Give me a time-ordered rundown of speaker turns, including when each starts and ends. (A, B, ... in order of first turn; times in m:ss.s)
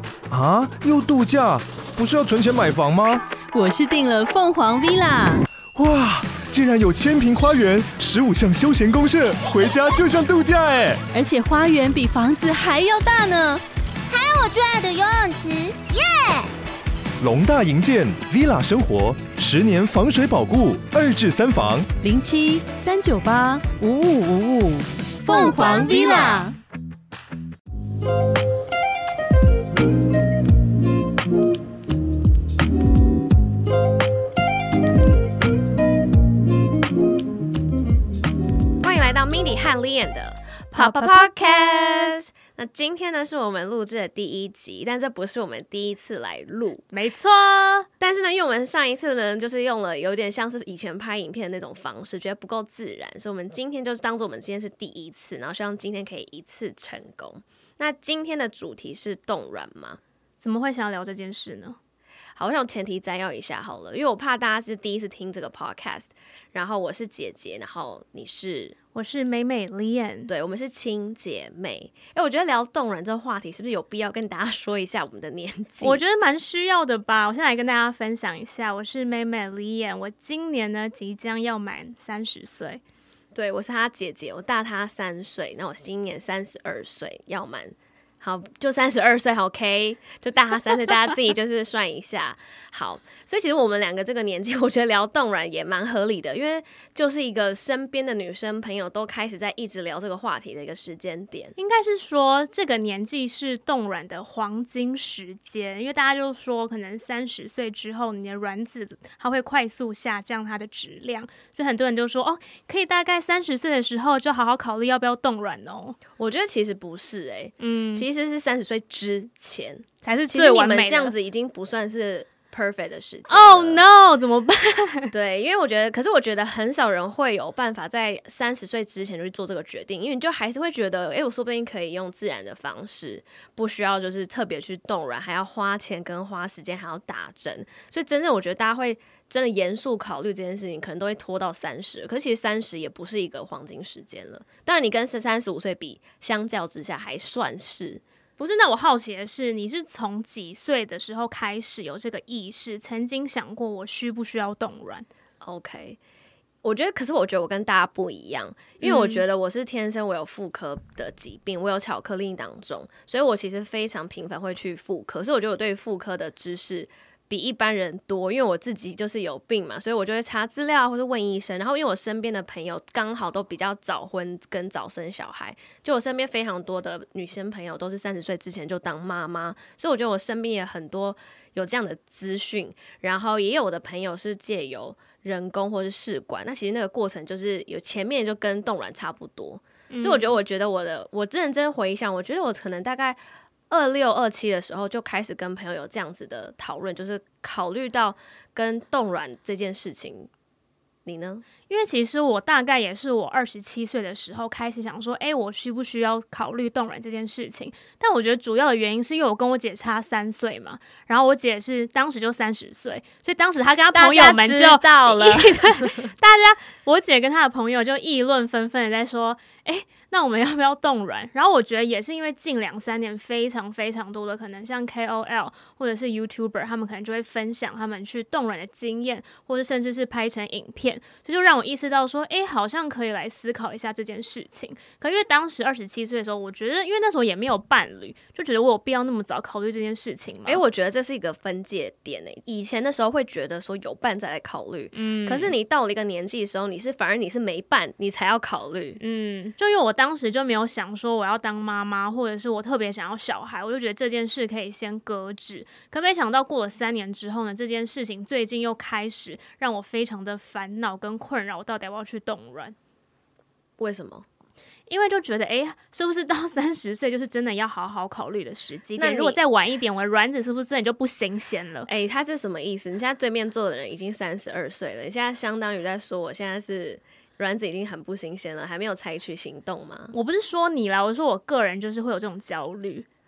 0:00.3-0:03.2 A
0:03.4-0:05.4 B
0:05.7-0:11.0 A
0:11.1-0:13.6 B
0:14.1-0:16.5 C
0:17.2-0:21.9 A
0:22.0-0:26.5 B
0:25.3-0:26.4 C
0:38.8-0:46.9 D
0:40.7-0:41.3 E
0:46.9-0:47.9 E
0:48.0-1:00.0 D
1:00.4-1:01.8 E
1:02.4-1:08.8 D
1:08.9-1:10.3 E
1:10.3-1:16.0 D
1:15.8-1:22.8 E
1:23.3-1:41.6 D
1:41.6-1:56.0 E
1:56.2-2:03.8 D
1:57.6-1:58.1 E
2:00.0-2:01.2 E
2:03.3-2:05.1 E
2:05.1-2:28.0 D
2:28.4-2:35.1 E
2:35.4-2:36.0 D
2:36.6-3:13.2 D
2:38.8-2:39.2 E
3:09.9-3:10.4 E
3:13.7-3:20.3 D
3:21.1-3:21.5 D
3:21.7-4:00.6 E
3:33.9-3:35.8 D
4:00.4-4:09.0 D
4:04.9-4:05.5 E
4:09.0-4:22.7 E
4:23.8-4:24.2 D
4:24.9-4:31.9 E
4:29.0-4:29.4 D
4:31.8-4:40.1 D
4:40.1-4:43.0 E